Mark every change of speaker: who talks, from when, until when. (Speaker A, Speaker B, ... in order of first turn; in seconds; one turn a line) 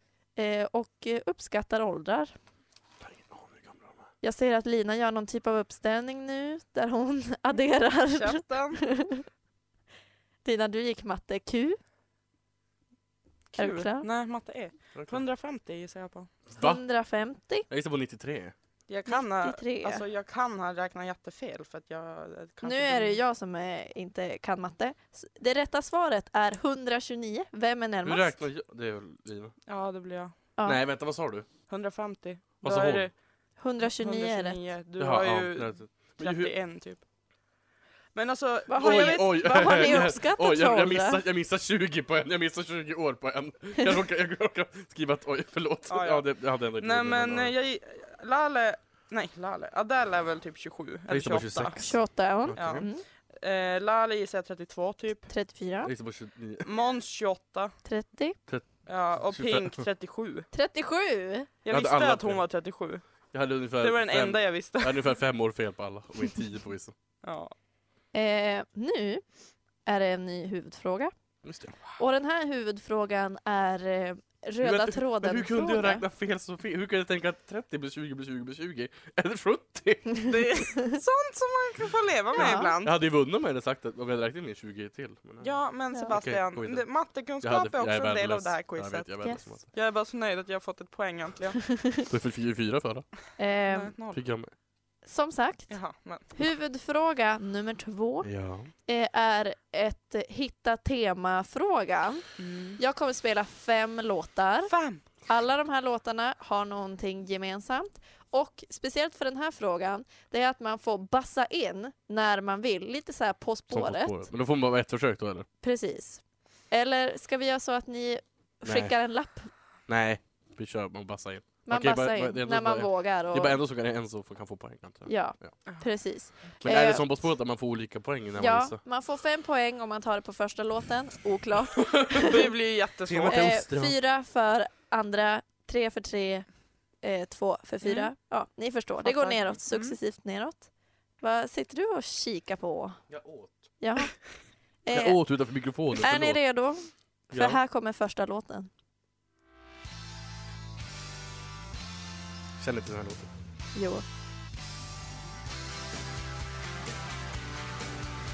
Speaker A: 0.4-2.3
Speaker B: 3.0-4.0
Speaker A: 4.2-9.2
Speaker C: 8.1-8.8
Speaker A: 10.4-11.8
Speaker C: 13.5-16.3
Speaker A: 13.6-14.1
Speaker B: 14.9-15.2
Speaker B: 16.5-16.8
Speaker A: 16.6-17.7
Speaker B: 17.7-18.5
Speaker C: 18.9-23.2
Speaker A: 19.1-20.0
Speaker A: 22.6-28.4
Speaker B: 28.0-29.6
Speaker C: 29.7-30.3
Speaker B: 30.6-31.5
Speaker C: 31.7-33.1
Speaker B: 32.6-33.1
Speaker A: 33.6-34.6
Speaker C: 33.8-37.0
Speaker B: 35.0-36.5
Speaker C: 38.1-40.1
Speaker A: 38.7-41.2
Speaker B: 38.8-47.5
Speaker C: 45.9-51.8
Speaker B: 51.1-52.9
Speaker A: 51.8-53.0
Speaker C: 52.6-55.3
Speaker A: 55.3-55.9
Speaker B: 55.8-56.7
Speaker C: 56.6-57.7
Speaker A: 57.9-58.4
Speaker B: 58.5-59.9
Speaker C: 58.9-60.5
Speaker A: 60.5-61.5
Speaker C: 61.6-63.0
Speaker B: 61.7-62.4
Speaker B: 63.3-67.0
Speaker C: 63.8-65.1
Speaker C: 67.2-67.5
Speaker A: 68.1-69.2
Speaker A: 69.9-71.1
Speaker B: 71.4-71.8
Speaker A: 72.0-76.0
Speaker B: 74.6-80.3
Speaker C: 80.3-83.0
Speaker A: 82.4-82.7
Speaker B: 82.8-89.7
Speaker C: 85.4-89.1
Speaker C: 89.7-91.7
Speaker B: 92.1-93.1
Speaker A: 93.4-93.9
Speaker C: 93.7-94.2
Speaker B: 94.1-94.5
Speaker A: 95.0-98.3
Speaker C: 95.7-96.3
Speaker B: 98.2-98.7
Speaker A: 98.9-102.3
Speaker C: 102.4-102.8
Speaker A: 102.8-104.7
Speaker C: 104.7-105.0
Speaker A: 105.3-114.3
Speaker B: 113.7-115.5
Speaker A: 115.6-119.5
Speaker B: 118.6-119.0
Speaker B: 119.9-125.5
Speaker A: 121.7-123.6
Speaker A: 125.1-127.1
Speaker B: 126.6-128.8
Speaker A: 128.4-132.4
Speaker B: 131.8-132.4
Speaker C: 132.2-133.5
Speaker B: 133.1-134.0
Speaker A: 133.3-136.5
Speaker A: 137.0-143.0
Speaker C: 137.8-138.1
Speaker C: 139.0-140.0
Speaker B: 143.1-143.7
Speaker A: 143.8-144.2
Speaker A: 144.8-145.2
Speaker B: 144.9-146.4
Speaker A: 145.9-148.7
Speaker B: 147.3-147.6
Speaker B: 152.6-153.3
Speaker A: 153.8-154.1